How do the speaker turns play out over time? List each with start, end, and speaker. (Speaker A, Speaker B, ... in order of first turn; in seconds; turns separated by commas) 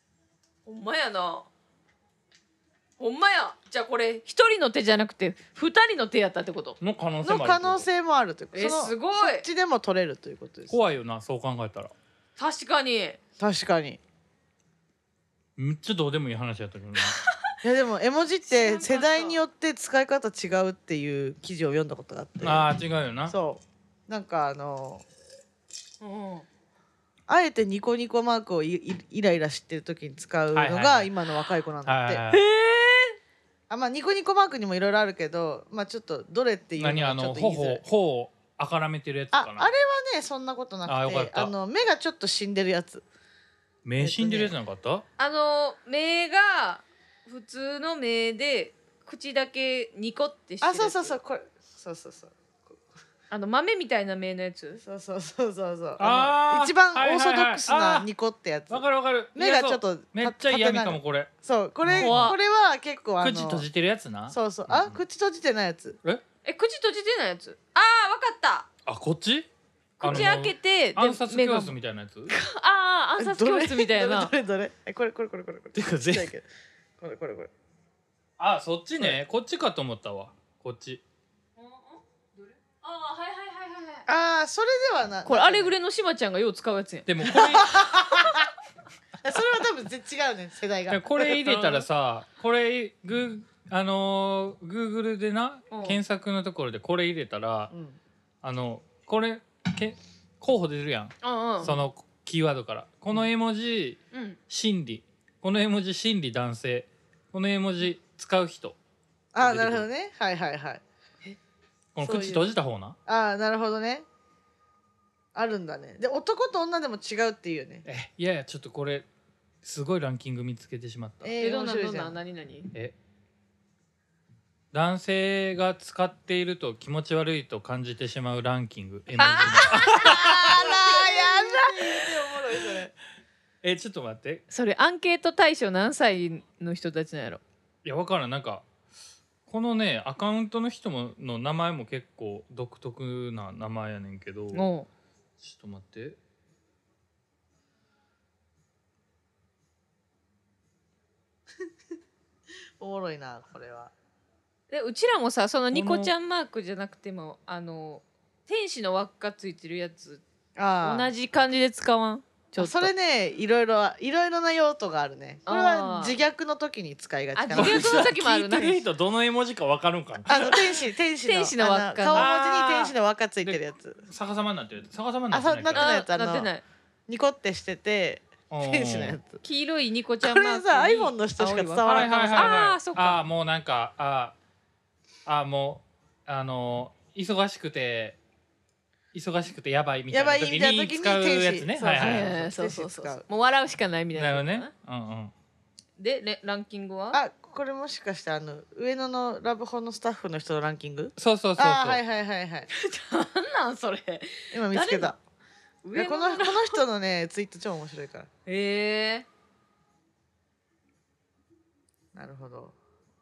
Speaker A: 0.7-1.5, Speaker A: 3.0-6.8, Speaker B: 6.8-7.9, Speaker C: 7.2-10.7, Speaker A: 8.5-9.4, Speaker B: 10.7-11.9, Speaker A: 12.4-13.2, Speaker C: 13.4-14.0, Speaker B: 15.6-17.1, Speaker C: 17.6-22.7, Speaker A: 18.4-19.4, Speaker B: 22.4-23.3, Speaker C: 23.3-25.0, Speaker A: 26.0-26.5, Speaker C: 27.3-32.2, Speaker B: 30.5-31.1, Speaker B: 31.8-32.4, Speaker A: 32.3-33.1, Speaker C: 33.7-37.8, Speaker B: 36.8-39.7, Speaker C: 39.3-43.0, Speaker B: 40.9-41.5, Speaker B: 43.8-45.0, Speaker C: 44.0-44.5, Speaker A: 45.2-51.2, Speaker C: 50.6-52.8, Speaker A: 53.3-54.8, Speaker C: 54.8-63.6, Speaker B: 56.0-58.1, Speaker B: 58.7-61.3, Speaker B: 61.8-62.3, Speaker A: 62.0-62.4, Speaker B: 63.2-65.0, Speaker C: 64.3-66.0, Speaker A: 66.4-68.7, Speaker B: 68.8-69.5, Speaker A: 70.0-71.7, Speaker B: 70.0-72.3, Speaker A: 72.3-74.3, Speaker C: 73.2-76.5, Speaker B: 75.8-76.3, Speaker C: 77.0-77.5, Speaker B: 78.4-81.0, Speaker A: 81.6-84.1, Speaker C: 84.1-85.7, Speaker A: 85.2-87.4, Speaker B: 87.1-87.9, Speaker C: 87.2-88.5, Speaker C: 89.2-91.8, Speaker B: 90.9-97.7, Speaker A: 95.7-96.0, Speaker C: 97.7-98.0, Speaker B: 98.4-108.8, Speaker A: 101.2-101.8, Speaker A: 104.1-104.4, Speaker C: 109.3-110.8, Speaker B: 109.4-109.8, Speaker B: 111.9-113.0, Speaker C: 112.0-112.5, Speaker C: 113.1-114.0, Speaker C: 115.3-117.8, Speaker B: 117.8-119.0, Speaker B: 119.6-121.3, Speaker C: 121.2-122.1, Speaker A: 121.4-122.7, Speaker B: 124.7-130.7, Speaker A: 129.2-132.0, Speaker C: 129.7-132.9, Speaker B: 133.6-134.4, Speaker A: 134.5-137.4, Speaker B: 137.8-138.6, Speaker B: 139.5-144.7, Speaker A: 144.5-144.9, Speaker B: 145.4-146.2, Speaker C: 152.8-153.9, Speaker A: 154.7-160.2, Speaker B: 155.7-156.1, Speaker C: 160.6-161.1, Speaker A: 160.8-162.9, Speaker C: 162.6-168.7, Speaker A: 165.4-166.2, Speaker A: 167.3-168.8, Speaker B: 167.5-170.7, Speaker C: 170.2-174.0, Speaker A: 171.2-172.3, Speaker B: 172.1-175.9, Speaker C: 175.3-176.5, Speaker A: 175.7-176.6, Speaker C: 177.1-179.4, Speaker B: 178.5-179.2, Speaker A: 179.4-183.2, Speaker C: 180.2-182.6, Speaker B: 181.9-184.3, Speaker B: 185.2-188.2, Speaker B: 189.1-192.3, Speaker C: 190.1-193.2, Speaker A: 191.9-194.7, Speaker B: 194.1-195.3, Speaker A: 196.0-197.2, Speaker C: 197.1-202.7, Speaker B: 201.2-202.0, Speaker A: 202.7-205.1, Speaker C: 204.5-205.2, Speaker A: 205.8-206.8, Speaker C: 205.9-208.3, Speaker A: 208.4-209.2, Speaker C: 212.1-212.8